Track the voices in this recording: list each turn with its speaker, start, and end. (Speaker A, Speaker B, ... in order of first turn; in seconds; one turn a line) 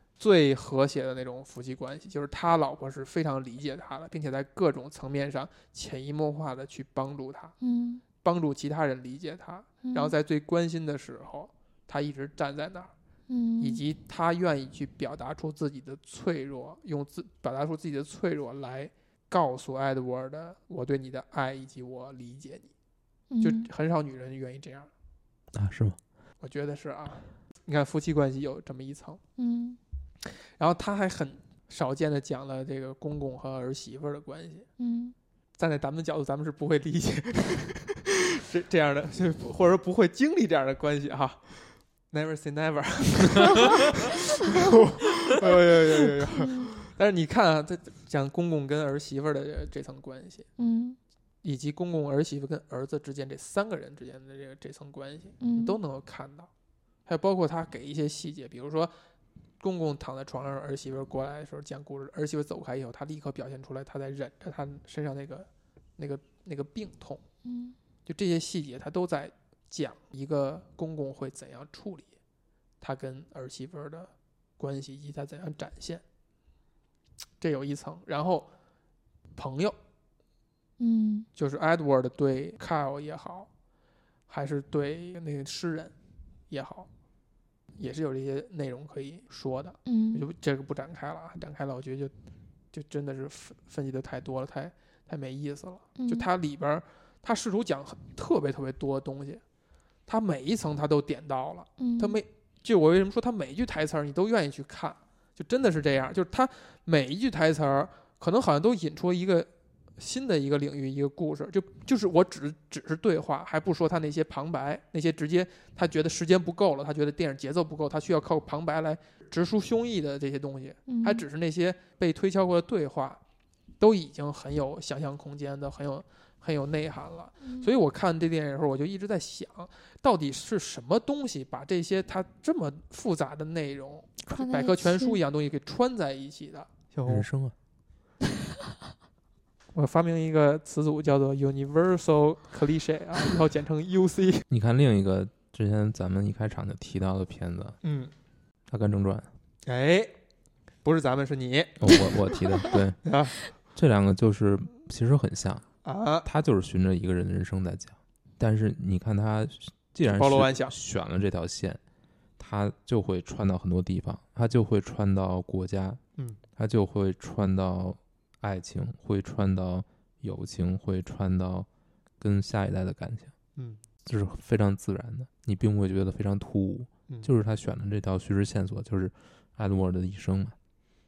Speaker A: 0.2-7.5
Speaker B: 7.6-8.0
Speaker A: 8.2-12.9
Speaker B: 9.8-10.1
Speaker B: 13.3-13.8
Speaker A: 13.6-22.7
Speaker B: 23.3-23.7
Speaker A: 23.4-24.9
Speaker C: 25.5-26.0
Speaker A: 26.4-29.2
Speaker B: 29.4-29.8
Speaker A: 30.5-34.7
Speaker B: 34.8-35.1
Speaker A: 35.6-41.5
Speaker A: 42.1-50.5
Speaker B: 46.4-46.7
Speaker B: 50.6-51.0
Speaker A: 51.4-56.5
Speaker B: 55.4-55.8
Speaker A: 57.0-58.9
Speaker A: 59.6-67.2
Speaker B: 67.4-67.8
Speaker A: 68.0-72.1
Speaker A: 72.8-76.0
Speaker A: 77.4-78.5
Speaker A: 79.3-79.8
Speaker B: 80.8-81.3
Speaker A: 81.3-83.5
Speaker A: 84.3-85.9
Speaker A: 86.5-86.9
Speaker A: 87.8-92.1
Speaker B: 89.8-90.2
Speaker A: 92.7-99.4
Speaker B: 96.0-96.3
Speaker A: 100.1-123.2
Speaker B: 101.8-102.2
Speaker B: 120.9-121.2
Speaker A: 123.8-137.3
Speaker B: 127.4-127.7
Speaker B: 134.3-135.2
Speaker C: 137.0-137.5
Speaker A: 139.7-144.4
Speaker C: 144.5-147.8
Speaker A: 147.8-148.1
Speaker C: 148.7-149.3
Speaker A: 149.7-150.1
Speaker A: 150.8-152.1
Speaker C: 151.8-153.1
Speaker A: 153.0-153.3
Speaker C: 153.7-155.7
Speaker A: 155.8-156.3
Speaker C: 156.2-161.8
Speaker A: 160.0-160.8
Speaker C: 162.4-166.0
Speaker C: 166.6-171.7
Speaker C: 172.2-173.3
Speaker C: 174.0-180.5